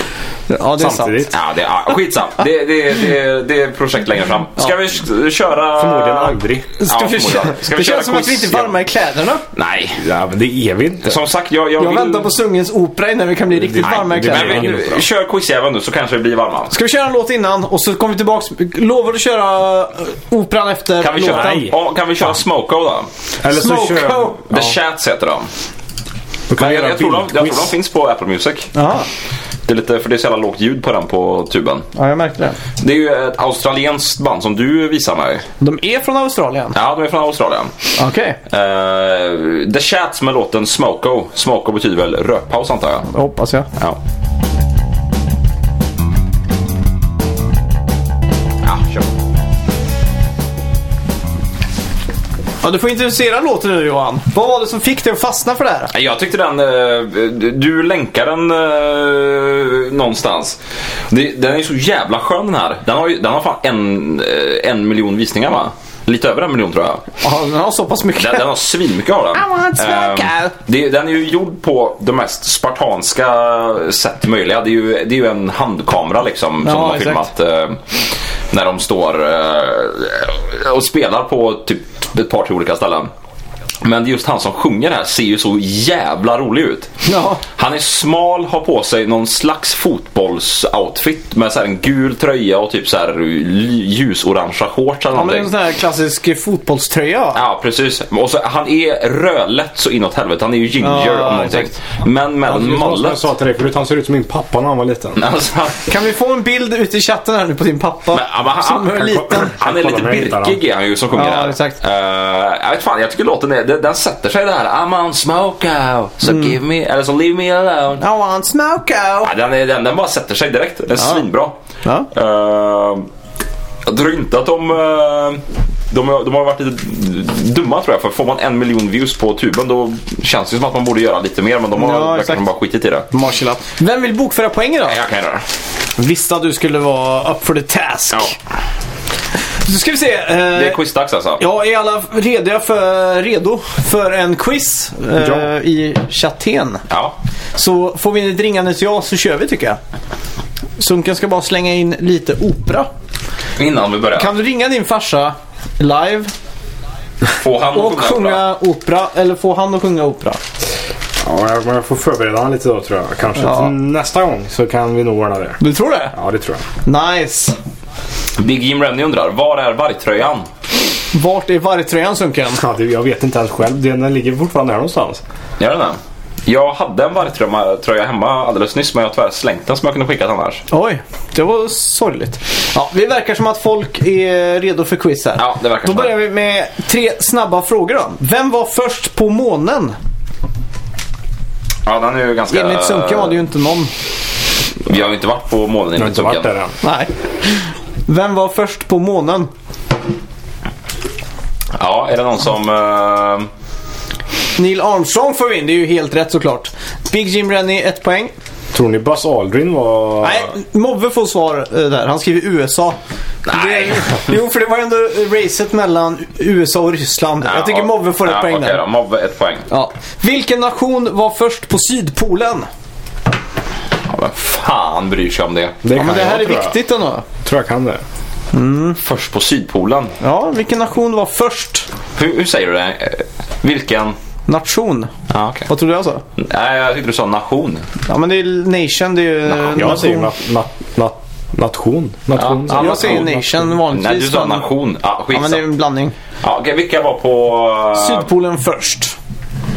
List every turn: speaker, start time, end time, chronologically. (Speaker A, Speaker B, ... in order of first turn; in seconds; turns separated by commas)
Speaker A: 0.5-1.3, Speaker B: 0.8-1.3, Speaker C: 1.3-8.7, Speaker B: 5.8-6.8, Speaker A: 6.8-9.4, Speaker C: 9.5-10.0, Speaker B: 10.0-11.2, Speaker C: 11.0-12.4, Speaker A: 11.8-14.9, Speaker B: 13.5-15.0, Speaker C: 13.8-16.7, Speaker A: 16.7-21.7, Speaker C: 21.0-23.1, Speaker B: 21.2-21.7, Speaker B: 23.4-24.7, Speaker A: 23.5-24.4, Speaker C: 24.5-25.5, Speaker B: 26.5-27.7, Speaker C: 26.5-28.7, Speaker A: 28.7-29.1, Speaker C: 29.6-31.9, Speaker A: 31.9-32.6, Speaker C: 32.8-35.5, Speaker A: 35.6-36.8, Speaker C: 36.7-37.9, Speaker A: 38.0-38.4, Speaker C: 38.5-43.1, Speaker A: 43.1-43.7, Speaker C: 48.6-49.1, Speaker A: 52.6-55.9, Speaker C: 55.9-60.6, Speaker C: 61.1-67.0, Speaker A: 67.2-68.5, Speaker C: 68.2-77.8, Speaker A: 69.3-70.5, Speaker A: 76.6-77.3, Speaker C: 78.5-83.1, Speaker C: 83.8-86.9, Speaker A: 87.0-87.4, Speaker C: 87.5-95.5, Speaker A: 95.1-97.4, Speaker C: 97.3-103.2, Speaker A: 100.8-101.7, Speaker B: 102.5-105.2, Speaker C: 105.2-105.9, Speaker A: 105.9-109.5, Speaker C: 108.1-118.0, Speaker B: 108.9-110.6, Speaker A: 111.1-111.8, Speaker A: 116.2-116.6, Speaker A: 118.0-119.3, Speaker C: 119.2-121.6, Speaker A: 121.0-121.2, Speaker A: 121.8-122.1, Speaker C: 122.1-123.1, Speaker C: 123.9-133.1, Speaker A: 131.7-132.4, Speaker A: 133.1-135.0, Speaker C: 134.9-135.4, Speaker A: 136.0-138.3, Speaker A: 139.6-140.8, Speaker C: 140.5-141.4, Speaker A: 141.4-146.8, Speaker C: 146.9-147.1, Speaker A: 147.6-149.8, Speaker A: 150.8-152.9, Speaker C: 153.6-154.3, Speaker A: 154.2-156.3, Speaker C: 157.3-158.4, Speaker A: 157.7-160.4, Speaker B: 161.2-165.6, Speaker A: 163.4-163.7, Speaker A: 165.6-166.1, Speaker B: 166.1-166.6, Speaker A: 166.8-167.5, Speaker C: 168.4-170.5, Speaker A: 171.1-172.6, Speaker B: 172.6-175.2, Speaker C: 175.6-180.6, Speaker A: 180.7-190.0, Speaker C: 185.4-186.2, Speaker C: 191.9-193.4, Speaker A: 192.5-193.9, Speaker C: 194.9-196.5, Speaker B: 195.9-196.8, Speaker A: 196.8-199.5, Speaker C: 201.7-203.5, Speaker A: 204.6-208.3, Speaker B: 208.7-210.5, Speaker A: 210.2-218.8, Speaker C: 213.4-214.2, Speaker C: 217.4-219.7, Speaker A: 219.7-222.7, Speaker C: 224.1-225.8, Speaker B: 225.8-226.8, Speaker A: 225.9-227.2, Speaker B: 227.4-228.0, Speaker A: 228.5-229.0, Speaker C: 229.0-230.1, Speaker A: 230.2-231.9, Speaker C: 232.2-234.2, Speaker A: 234.5-235.1, Speaker C: 235.3-235.7, Speaker A: 235.7-236.2, Speaker C: 236.4-237.9, Speaker A: 238.1-240.3, Speaker B: 239.7-243.7, Speaker C: 242.4-243.4, Speaker A: 242.7-244.7, Speaker C: 243.9-245.6, Speaker A: 245.3-246.1, Speaker C: 246.4-248.2, Speaker A: 247.9-249.2